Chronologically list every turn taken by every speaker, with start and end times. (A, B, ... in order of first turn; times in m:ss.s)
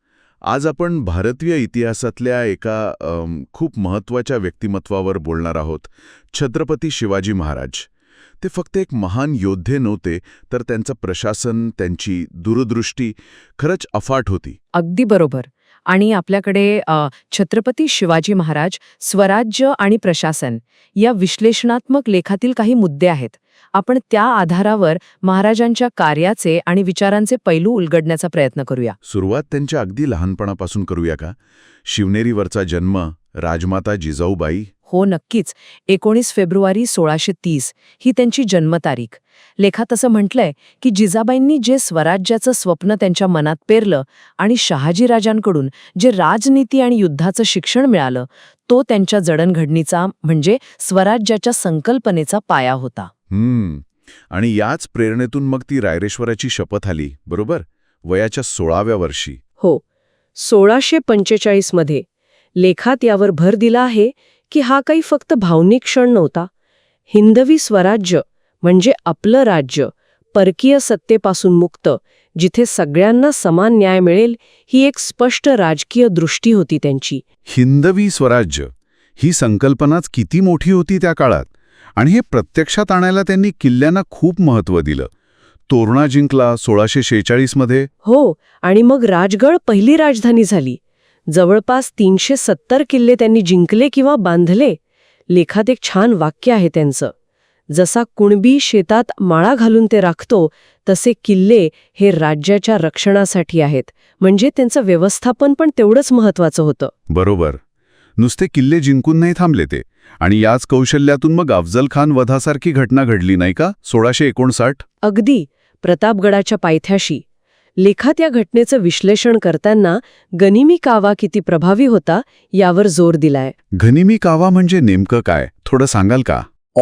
0:00.5-0:07.9 A
0:08.4-0:14.6 A
0:14.7-0:29.0 B
0:29.0-0:34.7 A
0:34.9-0:53.1 B
0:53.3-0:59.4 A
1:00.5-1:01.8 C
1:02.6-1:06.5 C
1:07.1-1:17.2 C
1:17.5-1:25.1 A
1:25.7-1:27.9 A
1:28.0-1:30.8 C
1:31.3-1:34.8 C
1:35.3-1:37.1 C
1:37.7-1:46.9 C
1:47.1-1:47.6 A
1:48.2-1:54.8 A
1:55.0-1:57.2 C
1:57.8-2:03.5 C
2:03.8-2:06.5 A